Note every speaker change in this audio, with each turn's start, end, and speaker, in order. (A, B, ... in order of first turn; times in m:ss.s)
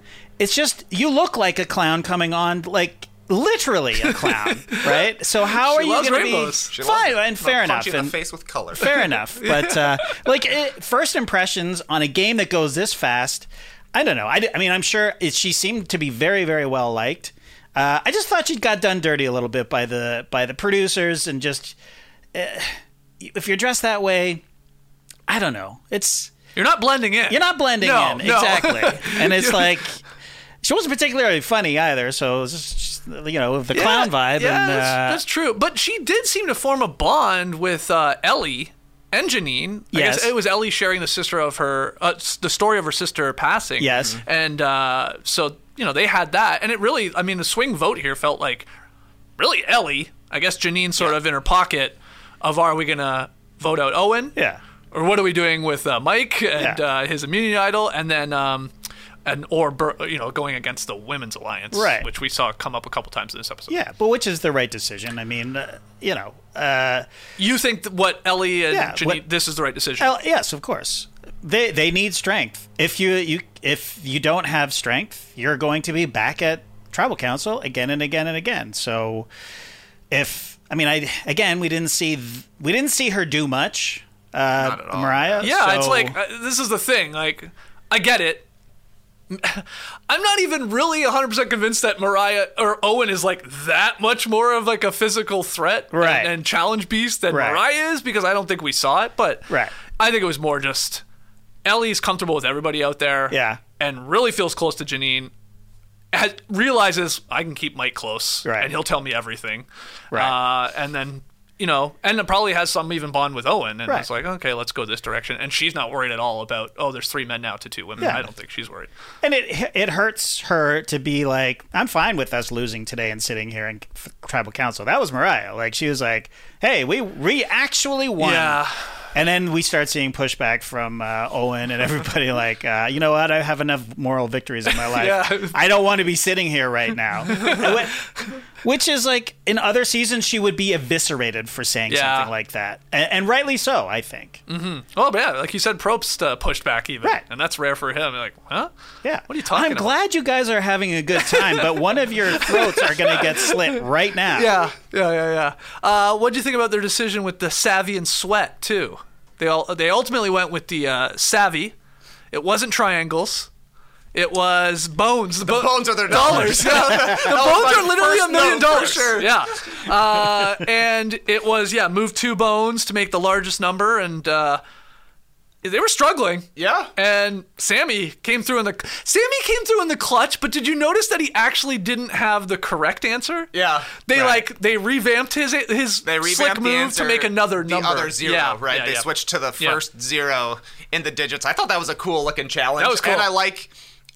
0:00.4-0:08.2 A
0:04.0-0:06.7 B
0:06.7-0:09.0 C
0:08.8-0:21.8 A
0:09.0-0:10.2 B
0:22.3-0:24.4 A
0:25.3-0:26.3 A
0:26.5-0:29.8 B
0:27.3-0:30.0 A
0:30.6-0:35.2 A
0:33.7-0:48.7 B
0:39.9-0:40.3 A
0:43.8-0:44.2 A
0:49.4-0:54.4 B
0:54.4-0:54.6 A
0:54.9-0:58.7 B
0:59.2-1:03.8 B
1:01.7-1:02.1 A
1:03.7-1:07.1 A
1:07.4-1:10.1 B
1:08.7-1:09.2 A
1:10.0-1:19.3 A
1:20.1-1:26.2 A
1:24.6-1:25.5 C
1:25.4-1:28.5 B
1:29.3-1:41.0 B
1:35.9-1:36.4 A
1:37.3-1:37.6 A
1:41.6-1:45.3 B
1:43.3-1:43.6 A
1:46.1-1:58.9 B
1:48.4-1:48.7 A
1:50.1-1:50.4 A
1:58.0-1:58.3 A
1:59.2-2:24.4 A
2:08.2-2:08.9 B
2:14.7-2:15.6 B
2:17.3-2:17.8 B
2:21.9-2:22.3 B
2:24.5-2:28.7 B
2:29.0-2:34.5 A
2:29.3-2:29.9 B
2:31.3-2:31.6 B
2:32.3-2:33.8 B
2:34.3-2:41.7 B
2:42.3-2:43.5 B
2:44.1-2:54.6 B
2:45.4-2:49.9 C
2:46.2-2:47.2 A
2:55.6-3:03.5 B
2:56.6-2:56.9 C
3:03.5-3:04.1 C
3:04.0-3:09.1 B
3:04.1-3:04.4 A
3:06.0-3:13.7 C
3:12.8-3:13.3 B